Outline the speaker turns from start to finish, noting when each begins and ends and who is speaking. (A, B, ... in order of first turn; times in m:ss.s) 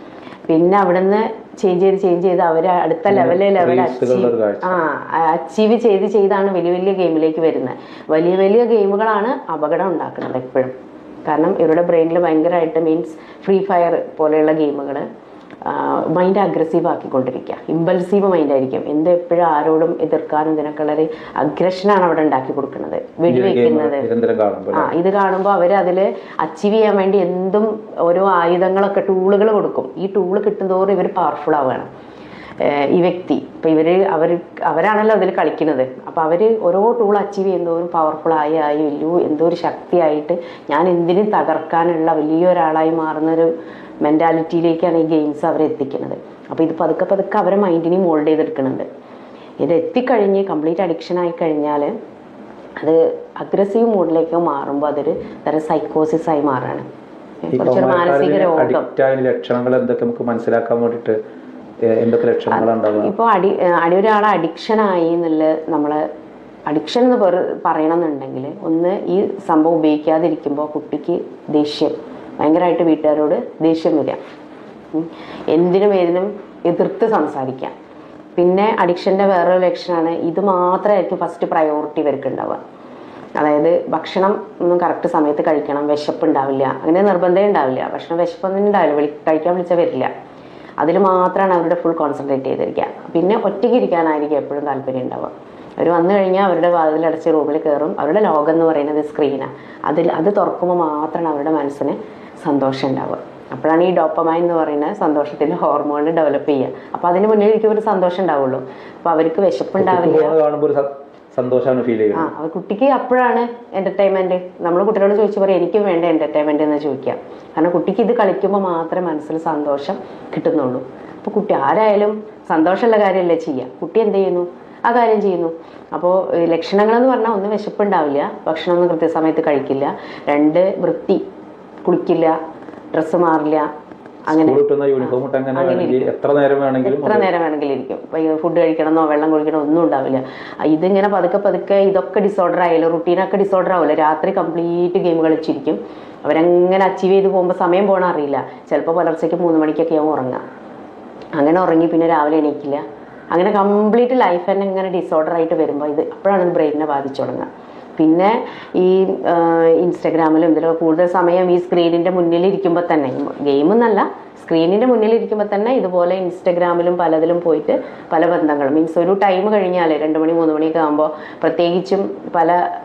0:00.5-0:10.7 A
0:03.1-0:04.8 B
0:11.2-0:15.0 A
0:15.6-0:24.1 A
0:23.3-0:24.9 B
0:24.7-0:31.9 A
0:32.6-0:43.5 A
0:44.0-0:48.8 A
0:49.6-0:51.9 A
0:52.8-0:56.8 A
0:57.4-0:58.8 A
0:57.5-1:01.2 B
1:01.9-1:03.1 B
1:02.5-1:06.0 A
1:06.7-1:14.2 A
1:14.9-1:17.7 A
1:18.4-1:22.6 A
1:23.4-1:30.1 A
1:30.8-1:50.4 A
1:49.8-1:52.3 B
1:52.1-2:11.2 A
2:11.8-2:12.3 A
2:12.9-2:13.7 A
2:14.3-2:30.4 A
2:14.3-2:17.3 B
2:31.3-2:52.6 A